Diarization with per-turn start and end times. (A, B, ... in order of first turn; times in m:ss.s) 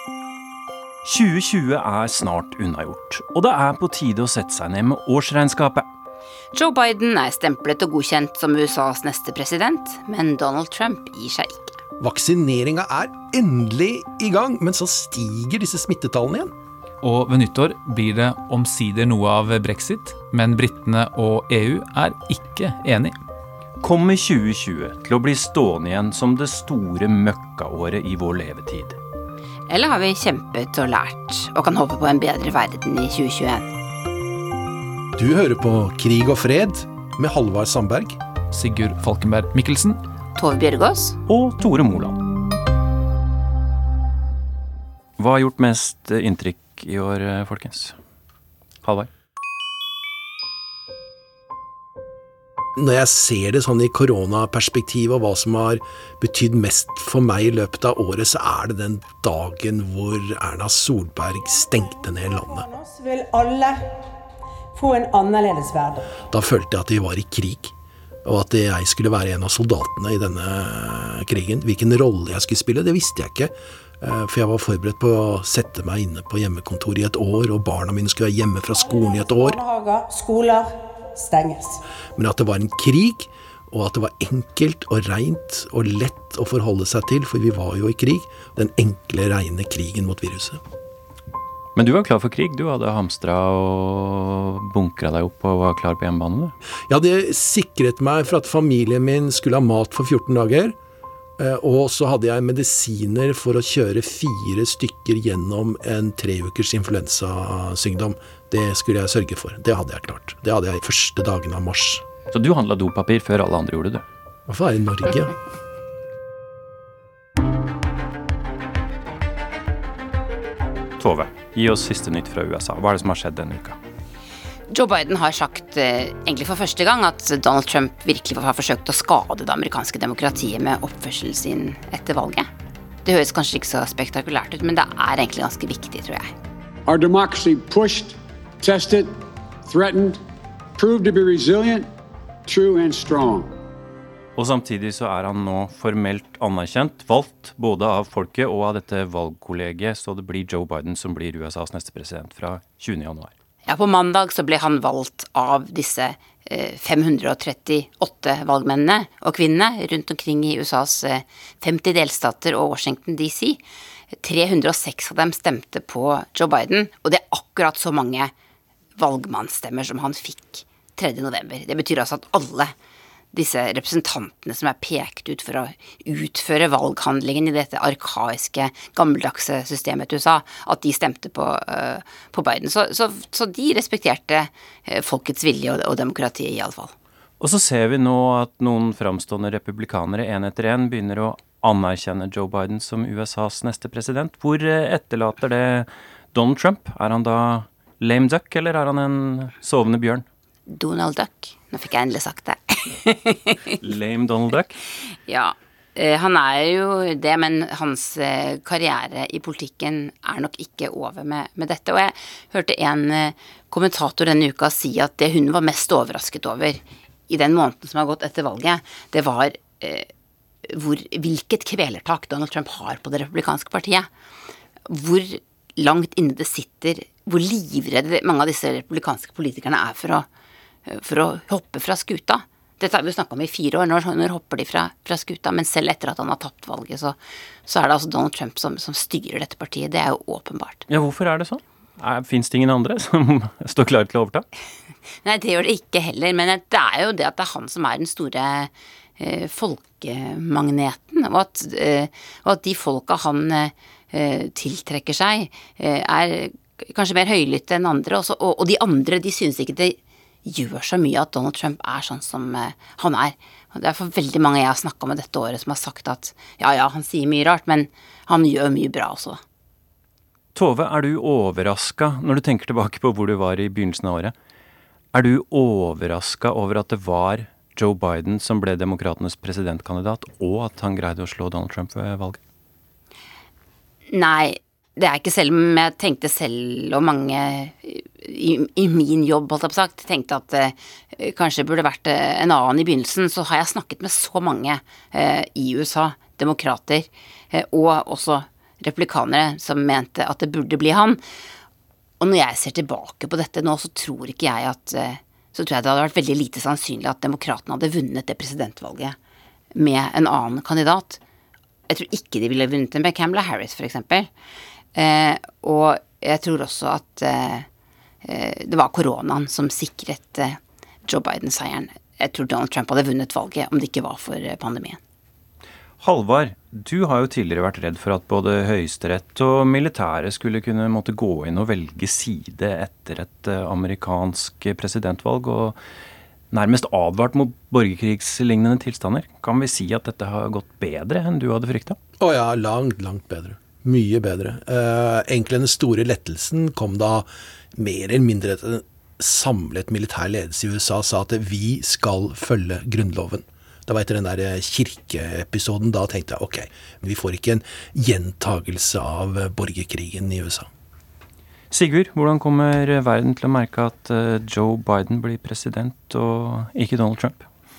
0:01.0-0:05.9 A
0:06.5-0:11.8 B
0:12.0-0:16.5 C
0:17.0-0:23.2 D
0:23.8-0:29.0 A
0:29.7-0:33.7 B
0:35.2-0:38.2 C
0:38.5-0:40.0 D
0:40.4-0:41.2 B
0:41.3-0:42.2 A
0:45.2-0:48.0 A
0:48.8-0:49.1 A
0:52.8-1:02.7 C
1:01.4-1:03.8 E
1:04.7-1:06.2 E
1:06.3-1:07.7 C
1:08.2-1:19.6 C
1:18.8-1:21.8 E
1:22.2-1:30.6 C
1:31.8-1:36.5 A
1:36.9-1:40.8 C
1:41.4-1:52.0 C
1:52.3-1:54.0 A
1:54.5-1:55.4 C
2:01.0-2:03.8 A
2:04.7-2:12.5 B
2:13.0-2:16.3 B
2:16.9-2:20.2 F
2:20.8-2:21.9 F
2:22.5-2:23.5 F
2:24.4-2:33.3 A
2:33.7-2:43.6 B
2:44.2-2:48.3 B
2:49.0-2:52.7 B
2:53.3-3:06.9 B
3:07.4-3:20.2 A
3:20.7-3:23.7 B
3:23.8-3:24.8 A
3:25.1-3:40.1 B
3:40.7-3:44.1 B
3:44.9-3:50.3 B
3:50.9-4:00.9 B
4:00.9-4:04.5 A
4:05.2-4:29.4 B
4:30.6-4:34.3 A
4:35.1-4:42.4 A
4:44.1-5:01.2 B
5:02.2-5:09.2 B
5:09.8-5:11.2 B
5:11.9-5:14.3 B
5:15.0-5:17.7 B
5:18.2-5:25.0 B
5:26.0-5:35.8 A
5:36.5-5:42.0 A
5:42.2-6:00.7 C
6:01.7-6:07.4 A